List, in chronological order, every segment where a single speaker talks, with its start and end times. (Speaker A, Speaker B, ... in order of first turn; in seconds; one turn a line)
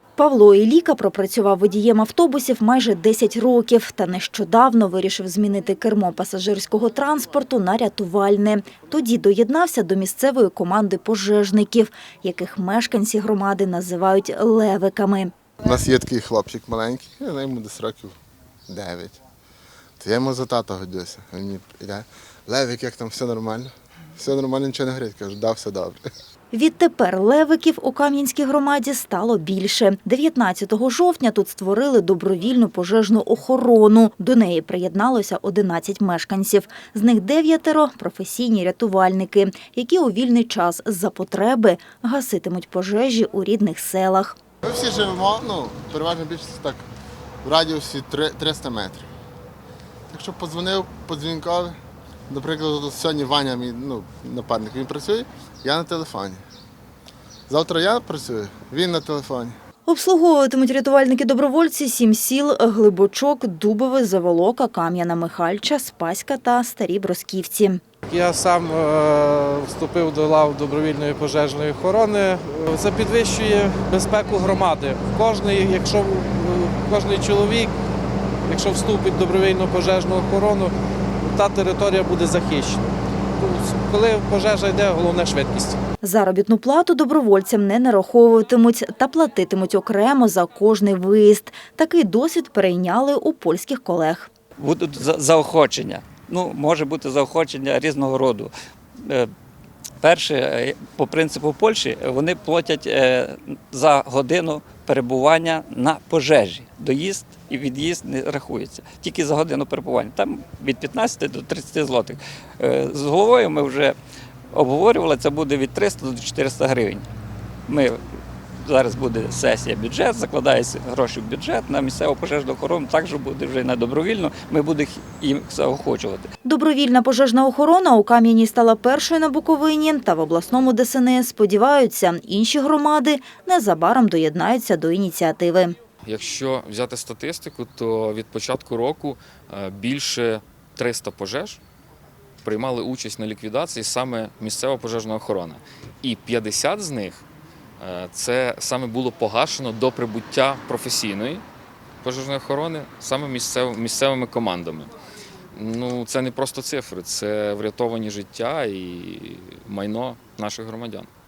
Speaker A: 0.1-15.3
Speaker B: 15.6-18.2
Speaker B: 18.7-19.2
Speaker B: 20.0-26.0
Speaker A: 26.5-44.4
Speaker B: 44.6-46.8
Speaker B: 47.4-49.1
Speaker B: 50.1-51.8
Speaker B: 52.3-56.4
Speaker B: 57.5-59.5
Speaker A: 59.9-67.8
Speaker C: 68.1-77.7
Speaker C: 78.5-85.8
Speaker A: 86.0-94.3
Speaker D: 94.6-98.5
Speaker D: 100.0-114.0
Speaker D: 114.5-117.1
Speaker D: 117.7-118.0
Speaker D: 118.6-126.3
Speaker A: 126.4-135.7
Speaker E: 136.1-141.6
Speaker E: 142.4-147.2
Speaker E: 147.8-151.4
Speaker E: 152.0-154.9
Speaker E: 155.5-161.1